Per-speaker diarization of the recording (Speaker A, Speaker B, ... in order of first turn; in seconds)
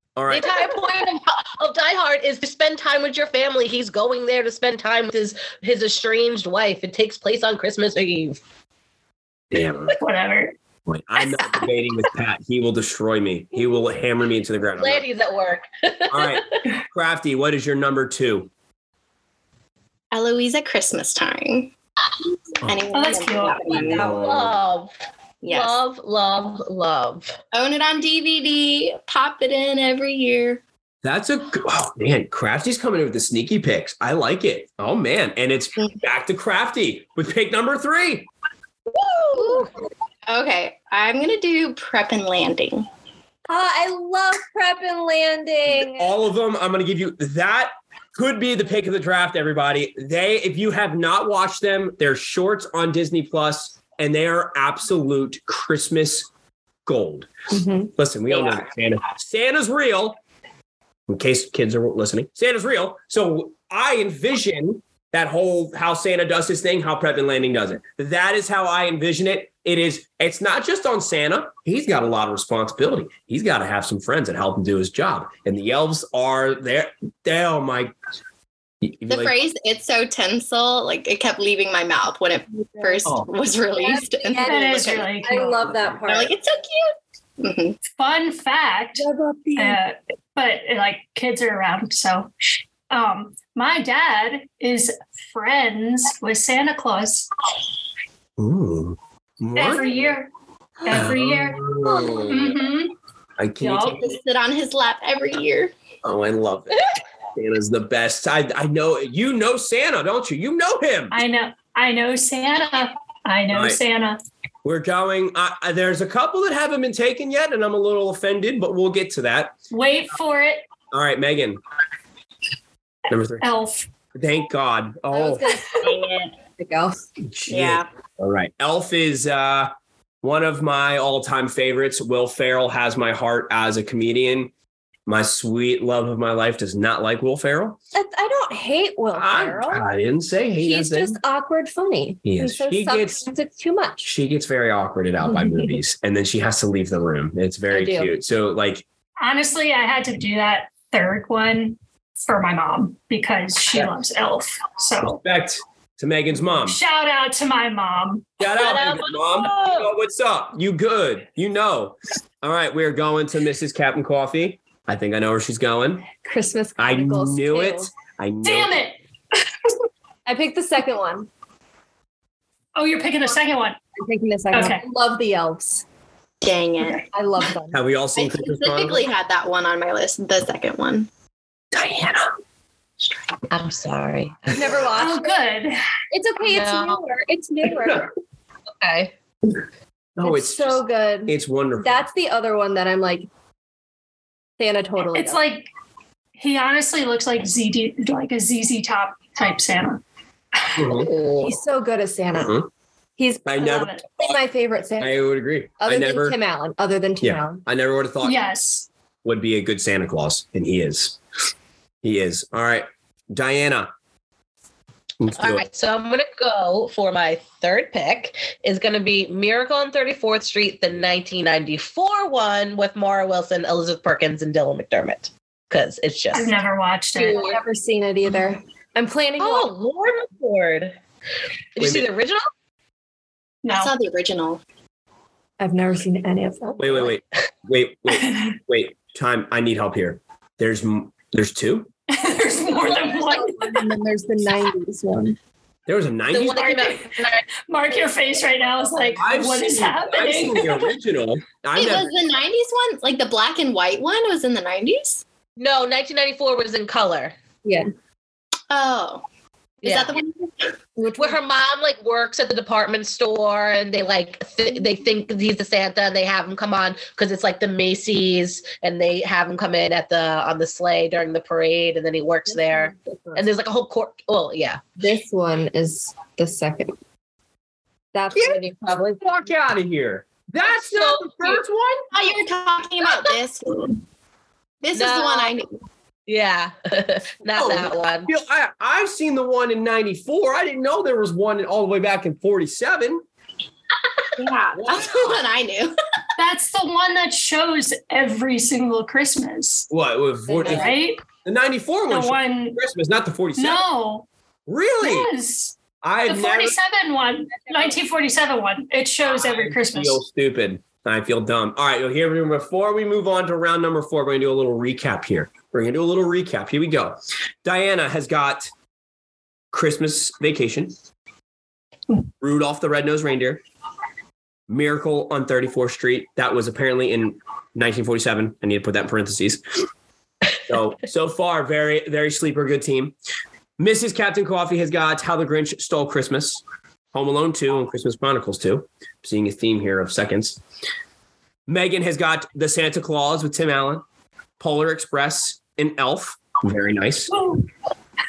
Speaker A: 0.2-0.6, 9.5-10.0, 10.9-15.1, 16.1-18.5, 23.7-24.6, 31.0-38.3, 45.8-56.3, 56.9-57.3, 58.0-60.2, 61.1-77.9, 78.8-79.3, 98.4-100.1, 100.9-102.5, 103.4-104.0, 106.0-111.2, 113.5-113.8, 114.6-119.6, 120.9-121.6, 123.1-123.5, 124.2-125.5, 127.3-129.7, 130.2-134.5, 135.1-137.8, 139.1-141.2, 142.2-143.2, 144.0-148.8, 155.1-156.8, 158.4-166.1, 166.8-168.8, 177.7-179.1, 181.7-182.3, 190.2-192.0, 200.8-201.1, 202.4-202.7, 203.5-204.4, 205.0-206.4, 207.2-208.4, 209.2-211.2, 212.0-213.9, 215.2-215.7, 231.8-232.1, 236.8-241.9, 245.9-246.7, 249.2-252.1, 278.3-282.1, 287.6-293.2, 294.8-295.4, 299.9-303.8, 304.7-305.3, 306.0-306.8, 309.3-318.7, 319.7-320.9, 322.4-323.6, 324.7-329.6, 330.7-333.1, 333.8-340.6, 341.7-344.0, 344.6-347.4
Speaker B: 0.3-8.4, 11.3-11.7, 14.8-16.6, 23.7-24.9, 25.5-27.4, 38.9-39.7, 158.4-159.9, 183.5-184.9, 186.4-187.0, 188.8-189.1, 200.9-201.6, 215.3-226.5, 227.2-227.6, 229.4-231.0, 231.8-232.5, 246.3-247.4, 255.6-257.4, 259.8-260.1, 261.2-274.8, 280.6-281.6, 284.9-285.6, 286.3-288.3
Speaker C: 10.0-10.6, 22.9-24.0, 84.4-85.6, 87.9-97.3, 99.6-100.3, 100.8-101.6, 102.3-102.9, 103.6-104.0, 111.1-114.2, 119.7-120.7, 123.4-123.9, 149.2-155.2, 156.5-158.4, 168.4-169.0, 172.8-173.8, 174.5-174.8, 184.9-185.8, 195.1-195.7, 196.4-200.0, 203.6-204.1, 208.2-208.9, 226.3-227.5, 233.6-233.9, 238.1-238.6, 242.1-243.8, 246.6-250.9, 296.4-299.9, 300.6-301.2, 302.1-302.8, 303.6-304.3, 305.0-310.2, 347.3-347.6
Speaker D: 20.1-21.7, 22.7-24.1, 25.4-25.8, 27.5-30.6, 39.4-39.7, 40.3-42.9, 79.1-85.3, 86.1-87.8, 104.0-105.7, 125.8-126.2, 127.5-127.9, 176.4-177.1, 178.2-181.1, 233.7-234.6, 251.8-255.2, 258.7-259.2, 259.8-260.7, 282.1-284.0, 284.8-285.7, 294.4-296.0
Speaker E: 43.5-46.1, 57.5-57.9, 82.6-83.0, 83.8-86.3, 89.0-89.8, 125.1-127.1, 137.9-139.9, 140.6-144.1, 145.3-145.8, 147.7-148.1, 166.2-167.9, 170.3-171.3, 174.0-175.8, 177.1-177.8, 184.5-185.4, 186.1-188.1, 190.2-193.3, 194.6-195.4, 201.4-202.6, 203.2-205.2, 205.8-207.7, 227.2-229.7, 235.6-237.1, 243.0-245.4, 257.6-257.9, 261.0-261.4, 272.5-273.4, 275.0-277.0, 278.1-279.2, 300.5-300.8